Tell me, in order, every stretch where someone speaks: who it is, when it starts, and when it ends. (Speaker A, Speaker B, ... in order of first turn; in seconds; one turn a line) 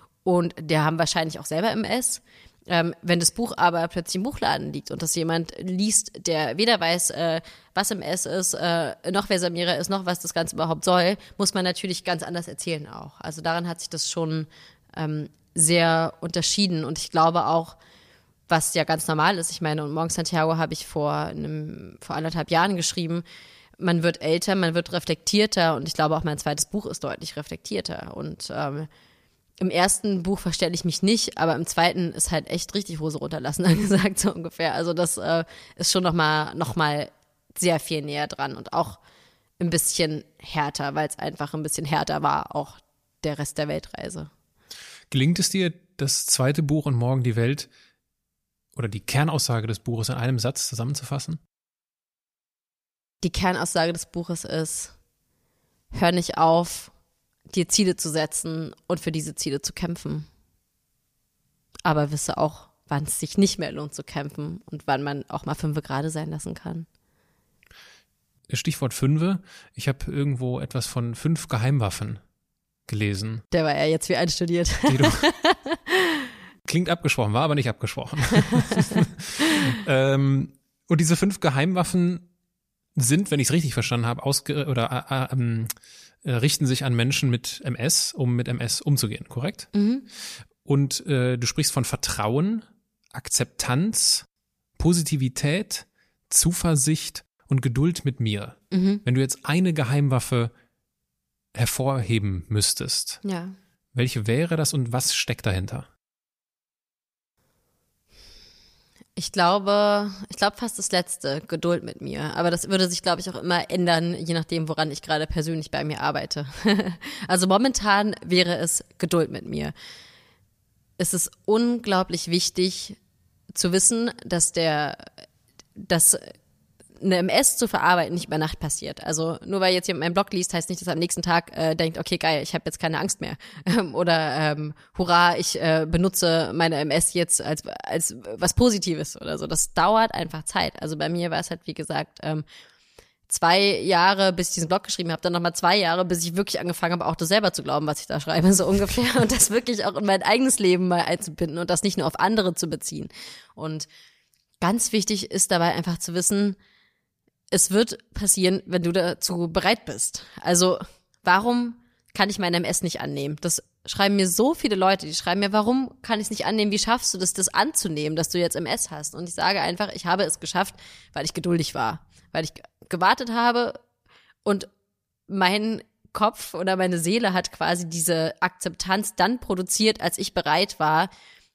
Speaker A: 0.2-17.8
Speaker A: 18.5-23.2
Speaker A: 23.8-28.9
Speaker A: 29.6-39.0
Speaker A: 39.6-44.3
Speaker B: 45.1-47.7
Speaker B: 48.8-51.4
Speaker A: 53.2-54.9
Speaker A: 55.9-56.9
Speaker A: 57.5-60.3
Speaker A: 61.9-66.9
Speaker B: 68.5-72.2
Speaker B: 72.9-73.4
Speaker A: 73.5-76.3
Speaker B: 74.9-75.2
Speaker B: 76.7-82.3
Speaker A: 78.4-79.0
Speaker B: 83.0-85.7
Speaker B: 86.2-89.7
Speaker A: 89.7-90.1
Speaker B: 90.6-94.3
Speaker B: 94.8-100.5
Speaker A: 98.7-99.0
Speaker B: 101.5-103.2
Speaker A: 103.2-103.6
Speaker B: 103.9-105.9
Speaker A: 109.2-119.7
Speaker A: 121.0-123.0
Speaker A: 123.5-125.1
Speaker A: 125.8-126.3
Speaker A: 127.0-142.4
Speaker A: 143.3-153.9
Speaker A: 154.6-156.6
Speaker A: 157.5-173.8
Speaker A: 174.4-174.7
Speaker A: 175.3-181.1